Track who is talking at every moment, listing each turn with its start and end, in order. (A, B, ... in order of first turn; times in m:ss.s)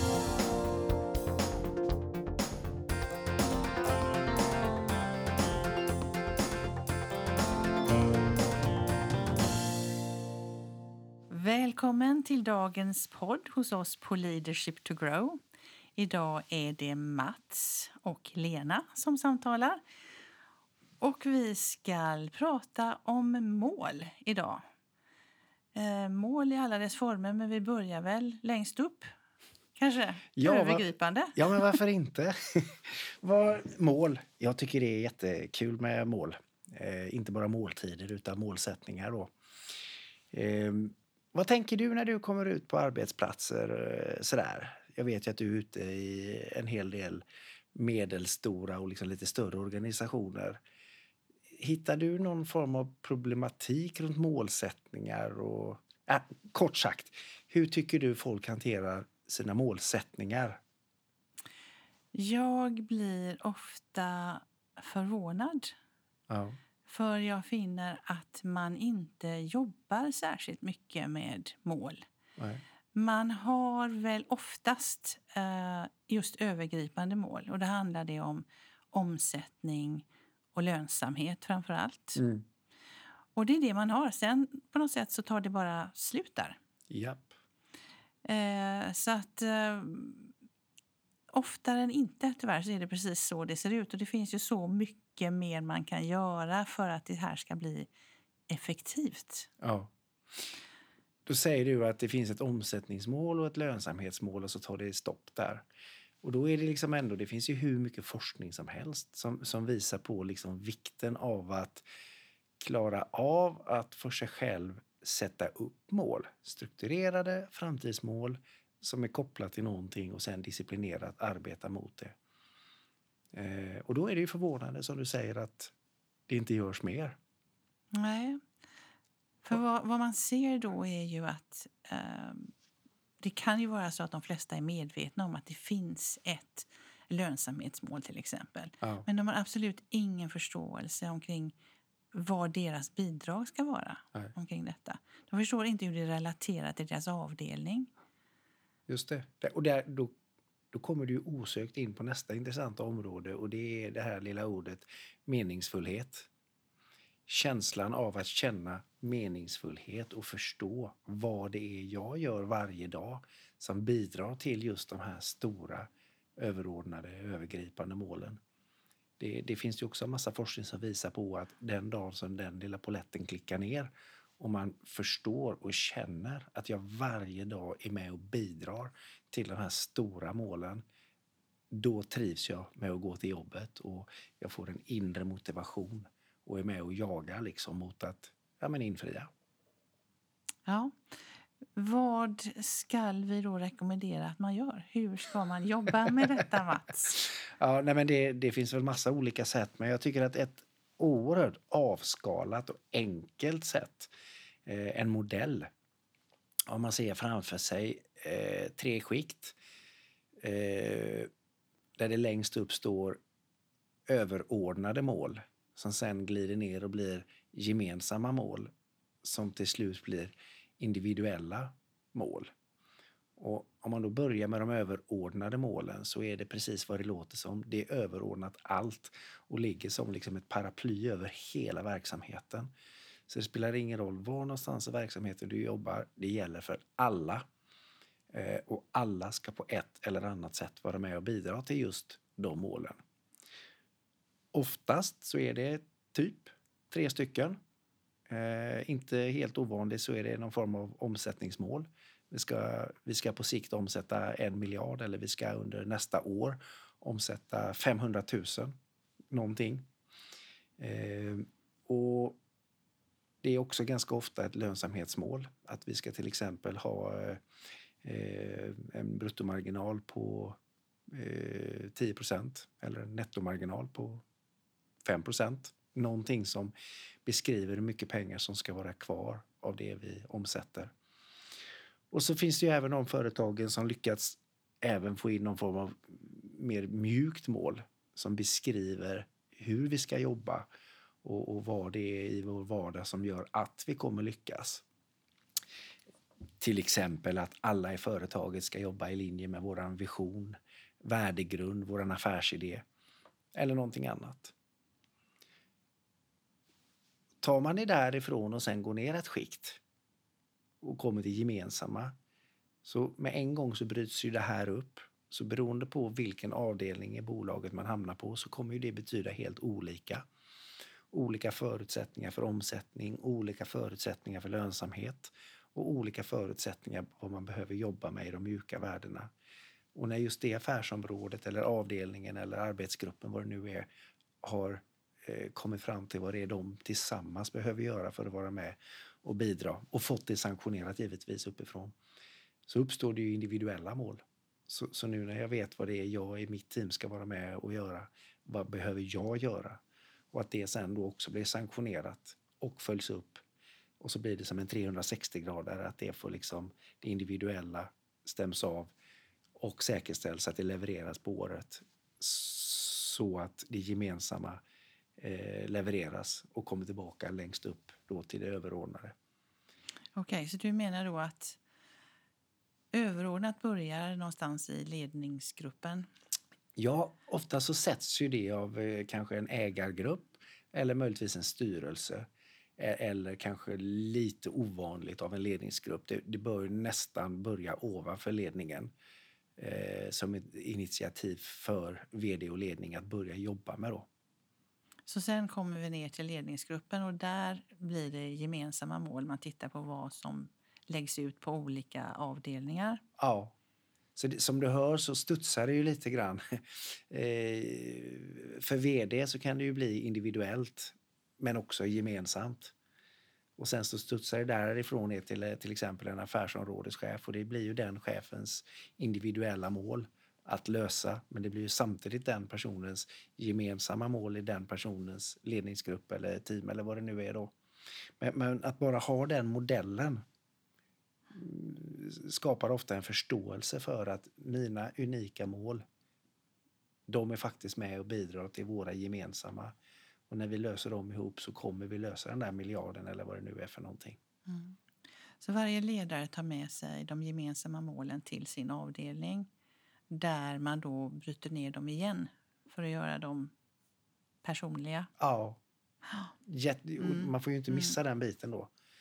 0:11.3-0:15.4 A
0:16.0-0:19.8 A
0:21.0-0:24.6 A
0:25.7-0:29.1 A
0:29.8-0:31.8 A
0:30.4-0:39.3 B
0:40.3-0:50.6 B
0:51.6-1:00.6 B
1:02.1-1:05.7 A
1:06.3-1:06.6 B
1:06.8-1:12.0 A
1:12.4-1:12.6 B
1:12.9-1:22.2 A
1:22.2-1:22.4 B
1:23.3-1:26.6 A
1:26.9-1:27.3 B
1:28.2-1:30.3 A
1:31.3-1:37.9 A
1:38.5-1:39.5 A
1:39.6-1:40.4 B
1:41.2-1:45.6 B
1:46.2-1:51.8 B
1:52.6-2:02.1 B
2:03.3-2:05.7 B
2:06.3-2:07.2 B
2:07.9-2:08.4 A
2:09.4-2:12.5 A
2:13.2-2:21.5 A
2:18.8-2:19.1 B
2:22.1-2:27.9 A
2:28.9-2:30.1 B
2:30.7-2:36.3 B
2:37.3-2:48.4 B
2:49.2-3:00.8 B
3:01.7-3:09.3 B
3:10.6-3:11.0 A
3:11.7-3:17.2 A
3:17.1-3:24.1 B
3:24.6-3:25.7 B
3:26.7-3:29.6 B
3:30.4-3:31.3 B
3:32.0-3:33.2 B
3:34.1-3:38.7 B
3:39.2-3:42.5 B
3:43.4-3:52.7 B
3:53.3-3:57.4 B
3:58.3-4:03.0 B
4:04.5-4:07.6 B
4:08.3-4:18.7 B
4:19.3-4:19.9 B
4:20.8-4:22.4 B
4:23.4-4:27.4 B
4:28.0-4:30.6 B
4:31.1-4:34.2 B
4:35.0-4:36.7 B
4:37.2-4:40.9 B
4:42.1-4:50.7 B
4:51.2-4:54.8 B
4:56.6-5:02.8 B
5:03.5-5:04.5 B
5:07.4-5:09.8 B
5:10.8-5:12.1 B
5:12.8-5:20.2 B
5:21.1-5:29.3 B
5:29.9-5:33.9 B
5:34.4-5:41.9 B
5:42.7-5:49.8 B
5:50.3-5:53.4 B
5:54.0-5:58.9 B
5:59.6-6:04.6 B
6:05.2-6:09.1 B
6:10.1-6:11.6 A
6:12.9-6:16.1 A
6:16.8-6:28.9 B
6:29.6-6:34.1 B
6:35.1-6:43.0 A
6:43.2-6:43.5 B
6:44.2-6:52.7 B
6:53.6-7:07.5 B
7:08.2-7:10.2 B
7:11.3-7:15.8 B
7:17.1-7:19.7 B
7:20.3-7:24.2 B
7:24.4-7:24.8 A
7:25.4-7:29.5 A
7:30.1-7:33.5 A
7:34.4-7:35.1 A
7:35.2-7:35.6 B
7:36.1-7:36.3 A
7:36.4-7:38.7 B
7:37.0-7:38.0 A